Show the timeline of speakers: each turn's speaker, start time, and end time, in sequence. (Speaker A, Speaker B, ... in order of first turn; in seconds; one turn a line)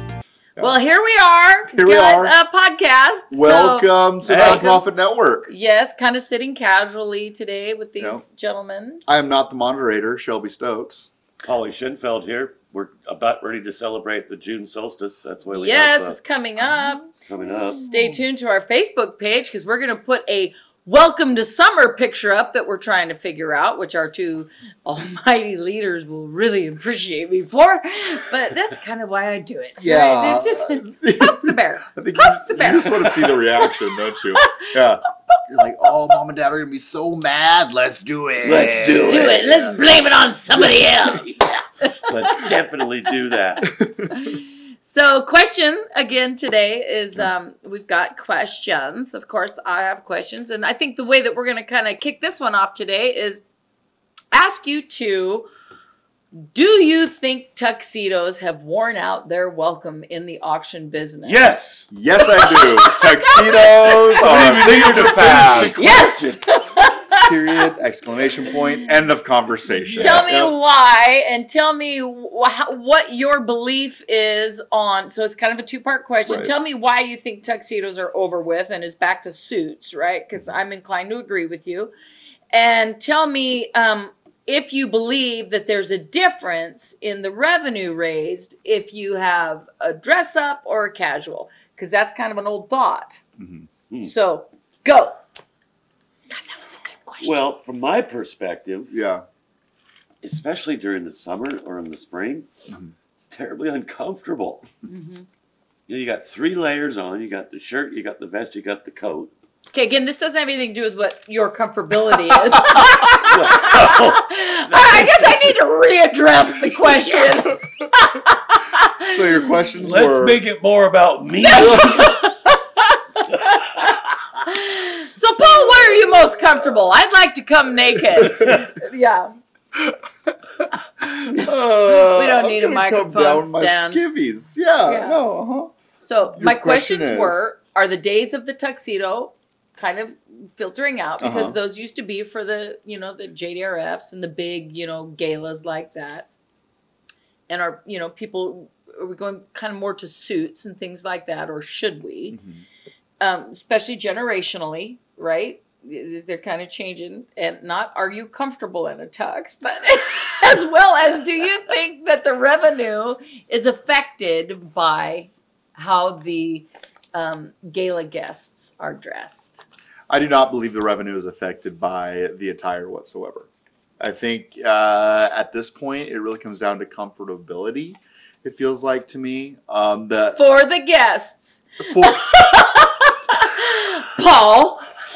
Speaker A: 0.6-4.8
Speaker B: 1.7-2.3
Speaker B: 3.3-5.5
Speaker C: 4.3-4.6
Speaker A: 5.5-9.0
Speaker B: 8.0-8.2
Speaker B: 9.1-11.1
Speaker C: 11.4-16.2
Speaker A: 15.5-33.9
Speaker C: 17.2-17.9
Speaker B: 29.8-39.8
Speaker A: 34.4-34.6
Speaker C: 38.4-39.6
Speaker A: 39.0-42.5
Speaker B: 40.5-41.2
Speaker C: 40.8-41.5
Speaker C: 42.0-43.7
Speaker B: 43.8-44.1
Speaker A: 44.1-53.4
Speaker A: 54.3-55.5
Speaker A: 56.4-61.4
Speaker C: 61.2-61.9
Speaker B: 61.9-65.8
Speaker A: 62.2-67.6
Speaker C: 64.1-66.8
Speaker B: 67.2-70.5
Speaker C: 69.8-70.3
Speaker A: 70.0-81.9
Speaker B: 76.2-76.5
Speaker A: 82.5-93.2
Speaker B: 93.4-93.7
Speaker A: 94.0-95.2
Speaker A: 96.3-97.4
Speaker C: 97.2-98.9
Speaker B: 98.9-99.2
Speaker C: 100.2-102.5
Speaker C: 103.2-104.7
Speaker A: 104.8-105.2
Speaker C: 105.9-109.3
Speaker A: 109.7-119.5
Speaker C: 112.7-115.6
Speaker C: 116.6-117.3
Speaker B: 119.0-120.4
Speaker C: 119.8-122.1
Speaker A: 121.5-129.3
Speaker B: 121.6-122.1
Speaker B: 128.2-128.5
Speaker B: 130.6-135.8
Speaker A: 131.3-134.0
Speaker A: 134.8-135.2
Speaker A: 136.0-146.3
Speaker B: 136.3-137.5
Speaker B: 141.2-141.6
Speaker A: 147.5-152.4
Speaker B: 152.3-152.6
Speaker A: 153.2-169.6
Speaker B: 170.1-173.5
Speaker B: 174.0-180.4
Speaker A: 180.3-184.9
Speaker B: 181.8-182.3